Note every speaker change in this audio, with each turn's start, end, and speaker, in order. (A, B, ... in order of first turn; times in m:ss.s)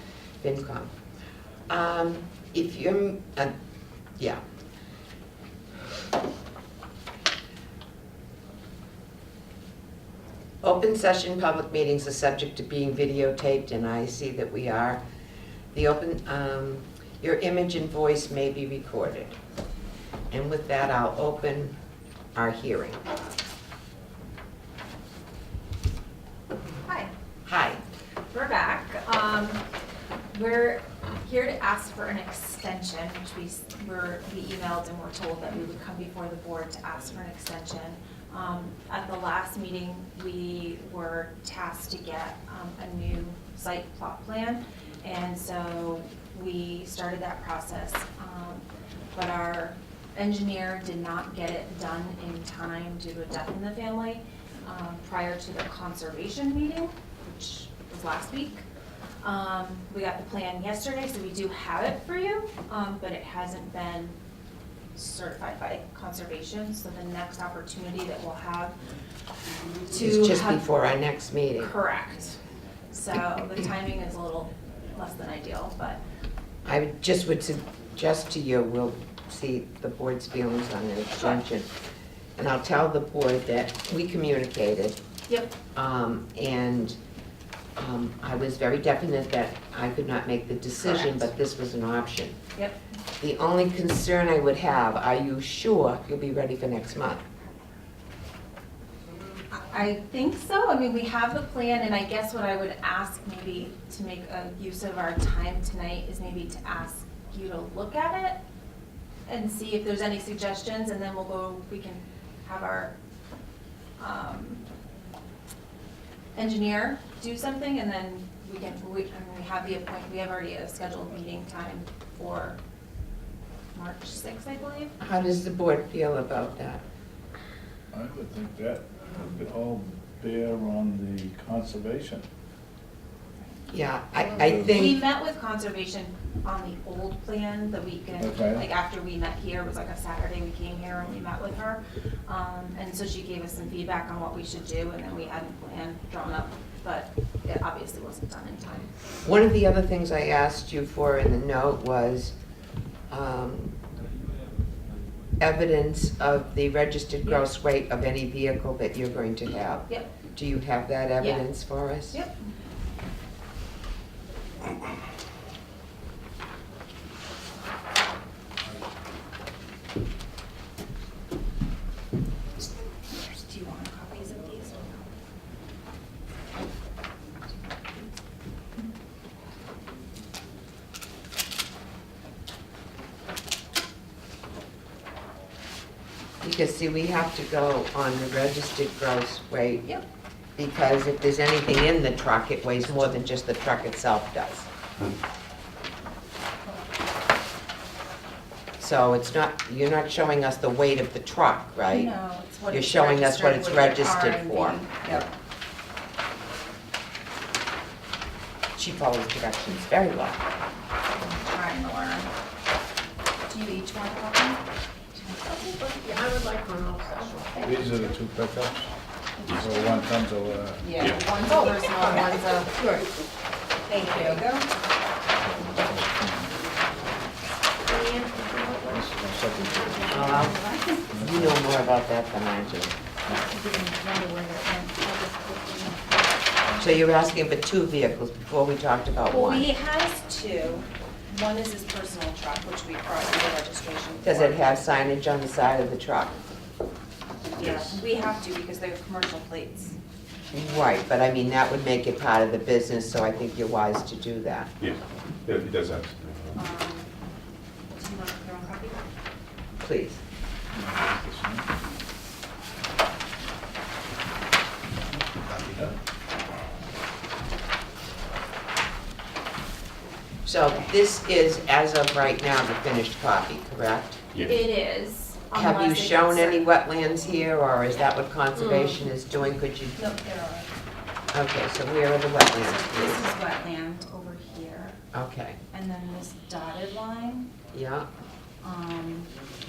0:00.4-0:00.9 A
0:01.7-0:03.5 A
0:10.6-0:15.0 A
0:15.7-0:19.4 A
0:20.3-0:21.7 A
0:22.4-0:23.0 A
0:26.9-0:27.1 B
0:27.5-0:27.8 A
0:28.3-0:29.6 B
0:30.3-0:58.7 B
0:59.2-1:04.2 B
1:05.0-1:08.8 B
1:09.9-1:10.6 B
1:10.0-1:11.7 A
1:11.6-1:12.4 B
1:12.9-1:16.0 B
1:16.6-1:21.7 A
1:21.2-1:21.4 B
1:22.4-1:25.0 A
1:25.3-1:25.5 B
1:25.8-1:27.0 A
1:27.8-1:32.4 A
1:30.8-1:31.3 B
1:33.2-1:37.2 A
1:39.5-1:48.4 B
1:49.3-1:53.0 B
1:54.0-1:54.6 B
1:56.4-2:02.6 B
2:03.7-2:05.0 B
2:05.0-2:06.8 A
2:07.9-2:12.2 C
2:13.7-2:15.0 A
2:14.2-2:14.8 C
2:14.7-2:28.9 B
2:18.2-2:18.6 C
2:29.2-2:32.4 A
2:33.1-2:33.8 A
2:35.4-2:42.2 A
2:39.9-2:40.1 B
2:41.2-2:41.5 B
2:42.1-2:42.5 B
2:53.1-2:55.1 B
2:57.5-2:58.1 B
3:06.4-3:09.9 A
3:10.6-3:14.7 A
3:18.8-3:22.1 A
3:21.9-3:25.3 B
3:22.7-3:24.8 A
3:28.8-3:30.4 A
3:31.1-3:32.3 B
3:33.5-3:34.6 B
3:35.1-3:35.8 B
3:35.5-3:37.7 D
3:37.6-3:38.9 C
3:39.5-3:39.7 E
3:39.5-3:41.1 C
3:40.8-3:42.9 B
3:41.4-3:42.2 D
3:42.8-3:43.0 D
3:43.9-3:44.7 B
3:45.4-3:46.5 C
3:47.9-3:49.0 B
3:48.1-3:49.0 D
3:48.9-3:50.4 C
3:49.8-3:50.1 D
3:49.9-3:51.1 B
3:50.1-3:50.6 A
3:51.1-3:51.6 C
3:51.2-3:52.9 A
3:53.3-3:56.2 B
3:56.8-3:59.7 A
3:59.3-4:04.9 B
4:04.2-4:06.4 A
4:07.5-4:10.0 B
4:07.6-4:07.9 E
4:10.5-4:14.7 A
4:14.8-4:16.6 E
4:16.6-4:17.1 B
4:18.0-4:19.0 B
4:19.8-4:20.2 A
4:20.7-4:21.6 C
4:25.6-4:26.0 C
4:30.4-4:34.2 A
4:34.3-4:34.6 E
4:34.4-4:36.8 B
4:35.5-4:40.0 A
4:40.0-4:40.7 B
4:41.3-4:43.2 A
4:42.6-4:45.0 B
4:45.1-4:45.6 A
4:45.7-4:47.5 B
4:47.7-4:48.1 A
4:48.6-4:49.3 B